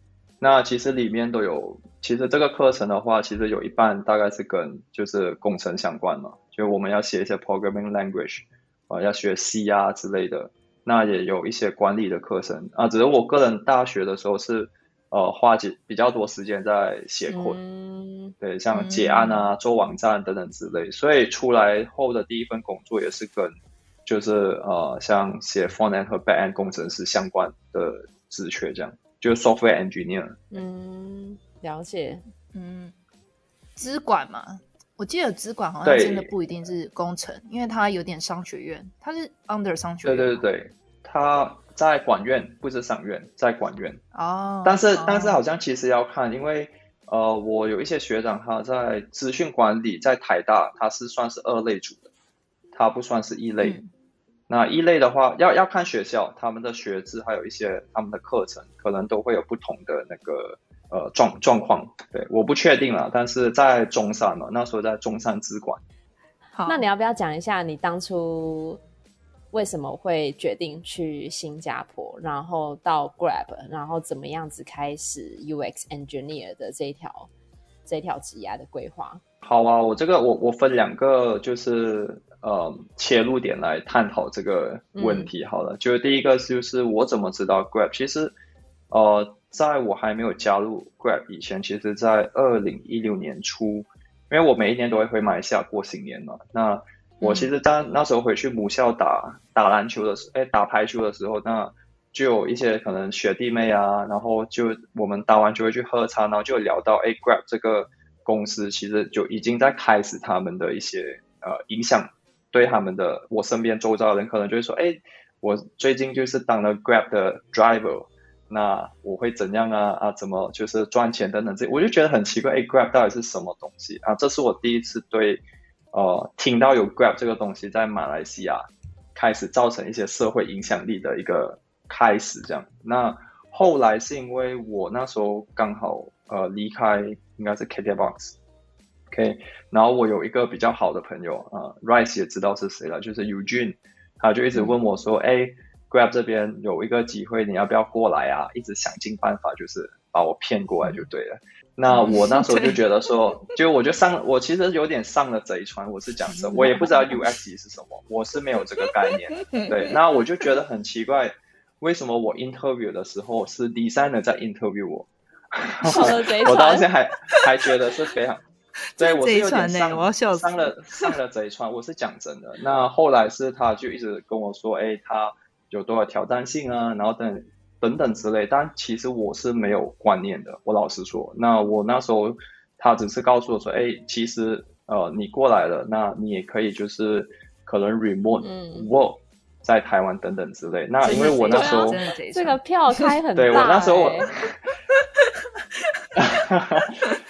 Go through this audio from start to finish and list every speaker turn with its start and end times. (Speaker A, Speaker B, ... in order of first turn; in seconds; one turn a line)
Speaker A: 0.4-17.6
Speaker B: 17.3-18.3
Speaker A: 18.4-23.5
Speaker C: 18.7-19.5
Speaker A: 24.1-30.4
Speaker B: 30.5-32.2
Speaker C: 32.5-32.9
Speaker C: 33.8-40.4
Speaker A: 35.8-36.3
Speaker A: 40.0-44.0
Speaker C: 44.1-45.4
Speaker A: 44.6-52.1
Speaker A: 52.7-53.8
Speaker C: 53.6-53.9
Speaker A: 54.5-65.8
Speaker C: 66.5-66.8
Speaker B: 66.7-68.8
Speaker B: 69.5-77.3
Speaker B: 77.8-79.2
Speaker A: 79.4-88.3
Speaker B: 85.0-85.3
Speaker A: 88.9-125.4
Speaker A: 125.9-138.3
Speaker A: 139.1-168.4
Speaker C: 151.9-152.8
Speaker C: 156.4-157.2
Speaker B: 156.6-156.8
Speaker B: 165.8-166.9
Speaker C: 169.0-171.1
Speaker A: 169.0-192.0
Speaker B: 188.4-188.9
Speaker C: 191.0-193.6
Speaker B: 191.1-194.3
Speaker A: 193.3-194.6
Speaker A: 196.2-197.0